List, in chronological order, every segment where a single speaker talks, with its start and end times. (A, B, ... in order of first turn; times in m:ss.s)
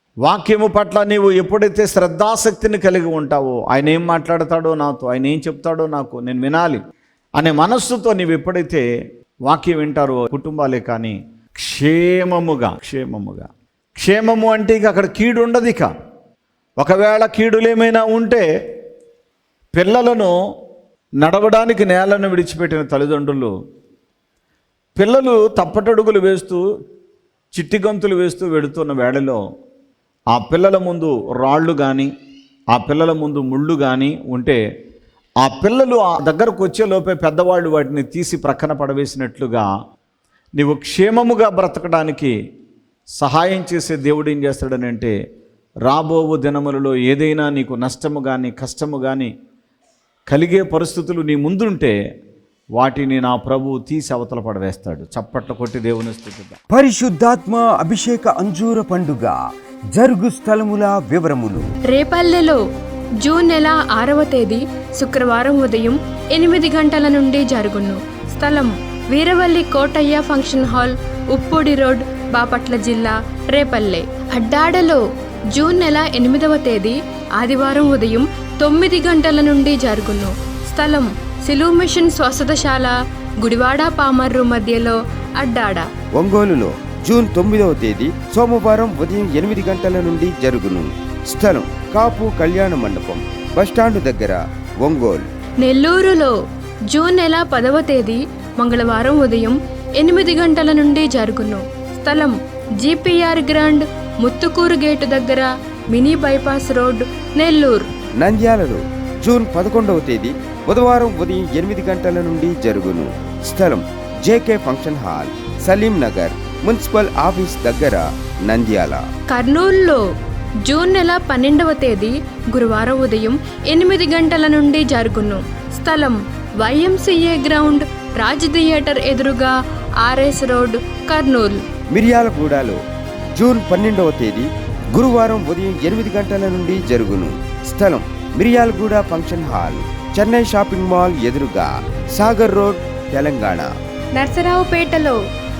0:00.2-0:06.8 A
0:07.4-0:08.8 A
0:09.4-0:15.9 A
0:16.8-0:18.4 A
0:19.7-0:20.3 A
0:21.2-0:23.5 A
0:25.0-0:26.6 A
0:27.5-0:29.4 A
0:30.3-0:32.1 A
0:32.7-0:34.6 A
0:35.4-0:39.7 A
0:40.6-0:42.3 A
0:43.2-0:45.1 A
0:45.8-0:49.3 A
0:50.3-0:51.9 A
0:52.8-0:56.6 A
0:56.7-0:59.4 B
0:59.9-1:01.6 B
1:01.9-1:02.6 C
1:03.2-1:15.0 C
1:15.5-1:25.8 C
1:26.2-1:35.2 B
1:35.6-1:36.3 C
1:36.9-1:47.8 C
1:48.2-1:59.0 B
1:59.3-2:00.0 C
2:00.6-2:11.6 C
2:11.9-2:12.8 B
2:13.3-2:23.7 B
2:24.2-2:25.2 C